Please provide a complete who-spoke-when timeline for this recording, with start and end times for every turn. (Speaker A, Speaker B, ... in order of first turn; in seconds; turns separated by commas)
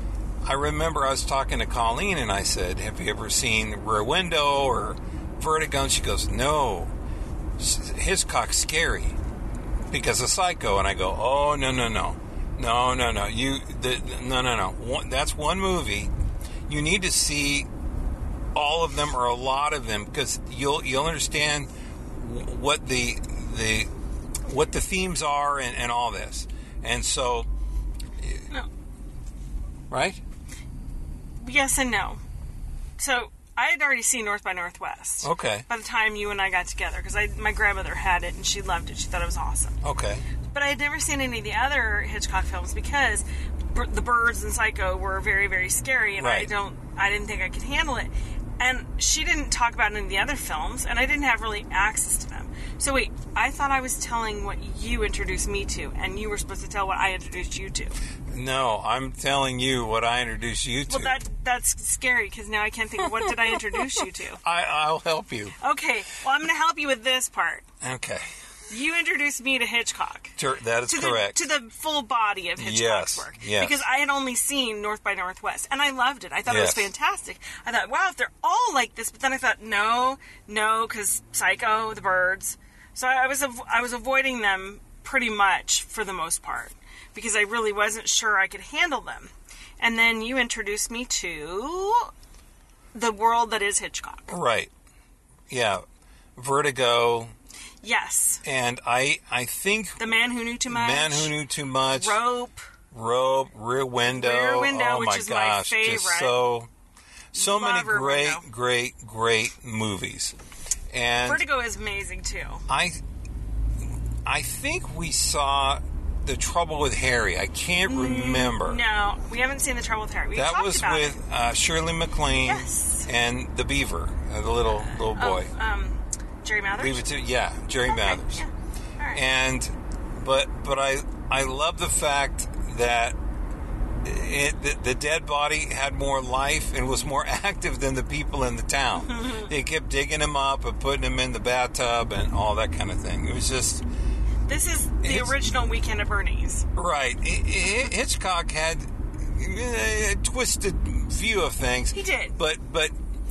Speaker A: 0.4-6.9, Speaker A: 7.6-9.2, Speaker A: 9.9-16.1, Speaker A: 16.7-17.7, Speaker A: 18.6-23.9, Speaker A: 24.4-27.5, Speaker A: 28.2-28.5, Speaker A: 29.9-30.2, Speaker B: 31.4-32.2, Speaker B: 33.0-39.8, Speaker A: 35.2-35.7, Speaker A: 39.8-40.3, Speaker B: 40.5-58.0, Speaker A: 46.2-46.5, Speaker A: 58.3-61.2, Speaker B: 60.9-64.4, Speaker A: 64.4-65.6, Speaker B: 65.6-67.6, Speaker A: 67.8-68.3, Speaker B: 68.7-70.3, Speaker A: 70.4-71.4, Speaker B: 70.9-92.1, Speaker A: 72.6-73.8, Speaker A: 76.5-76.9, Speaker B: 92.9-94.3, Speaker A: 94.3-94.7, Speaker A: 95.5-95.8, Speaker A: 96.4-97.3, Speaker B: 97.8-98.4, Speaker A: 98.4-100.1, Speaker B: 100.0-101.3, Speaker A: 100.7-102.2, Speaker B: 101.9-102.6, Speaker A: 102.9-106.7, Speaker B: 104.1-106.4, Speaker A: 107.3-110.3, Speaker B: 107.3-108.4, Speaker A: 110.9-111.4, Speaker B: 111.2-112.6, Speaker A: 112.7-113.0, Speaker A: 114.2-118.8, Speaker B: 117.9-121.2, Speaker A: 120.3-125.5, Speaker B: 122.4-123.1, Speaker B: 125.0-127.1, Speaker A: 126.8-128.4, Speaker B: 127.8-129.2, Speaker A: 129.1-133.2, Speaker A: 134.0-143.8, Speaker B: 139.0-139.5, Speaker B: 144.5-146.7, Speaker A: 145.0-145.3, Speaker A: 146.8-152.9, Speaker B: 151.9-152.4